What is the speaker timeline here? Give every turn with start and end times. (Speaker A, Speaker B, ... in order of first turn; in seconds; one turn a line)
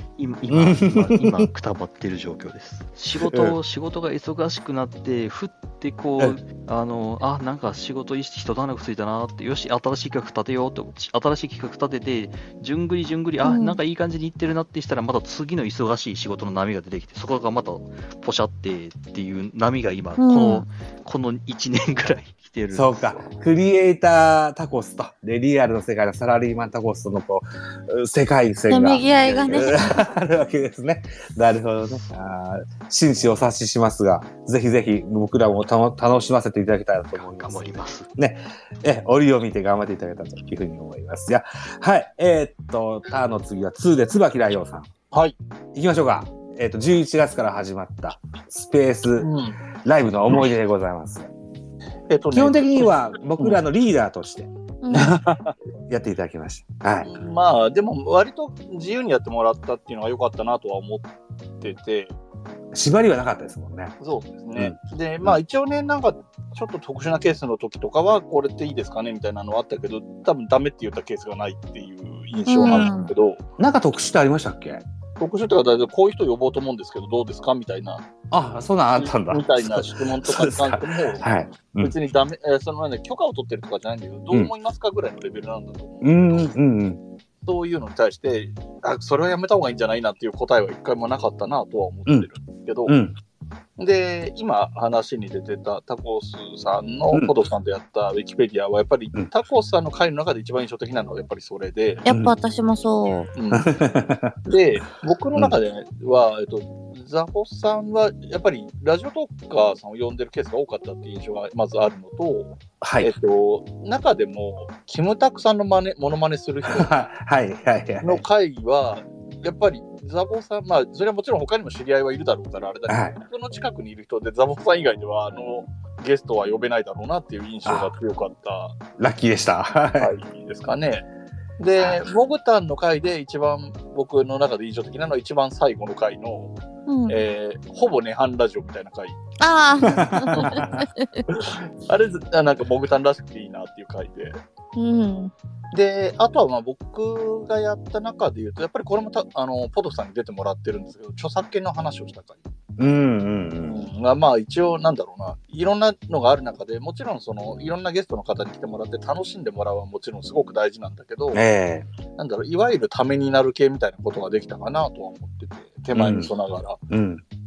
Speaker A: 0.2-23.3
Speaker B: 0.5-1.5
Speaker B: 3.2-3.6
Speaker C: 13.4-13.8
Speaker C: 20.2-20.7
Speaker B: 22.7-44.9
Speaker C: 28.7-29.9
Speaker A: 37.1-38.1
Speaker B: 45.8-49.3
Speaker D: 49.2-49.6
Speaker B: 49.8-51.3
Speaker D: 52.1-53.6
Speaker B: 52.3-55.2
Speaker C: 54.8-55.2
Speaker D: 54.9-55.5
Speaker B: 55.9-57.1
Speaker D: 57.0-61.1
Speaker D: 61.6-62.2
Speaker B: 62.7-64.0
Speaker D: 64.0-73.4
Speaker B: 64.6-65.4
Speaker C: 72.5-73.1
Speaker B: 72.6-72.9
Speaker B: 73.6-74.8
Speaker D: 75.2-78.1
Speaker B: 78.3-81.9
Speaker D: 79.0-81.3
Speaker D: 81.8-86.5
Speaker B: 86.0-87.0
Speaker D: 87.5-93.0
Speaker B: 92.9-93.2
Speaker D: 93.8-102.0
Speaker C: 102.0-103.3
Speaker B: 102.1-102.4
Speaker D: 103.4-103.7
Speaker B: 103.5-104.3
Speaker D: 104.5-116.9
Speaker B: 112.8-113.1
Speaker B: 116.7-118.2
Speaker D: 118.0-128.8
Speaker B: 122.9-123.2
Speaker B: 127.7-127.9
Speaker B: 129.0-130.1
Speaker D: 130.0-131.1
Speaker D: 131.6-136.5
Speaker C: 136.9-137.2
Speaker D: 137.1-139.2
Speaker C: 139.4-141.2
Speaker B: 139.8-140.8
Speaker D: 140.4-140.6
Speaker D: 141.3-144.4
Speaker C: 144.8-145.3
Speaker D: 145.7-152.4
Speaker B: 152.8-153.8
Speaker D: 153.6-161.4
Speaker B: 161.3-161.9
Speaker D: 162.2-166.8
Speaker B: 165.9-166.3
Speaker B: 166.9-167.2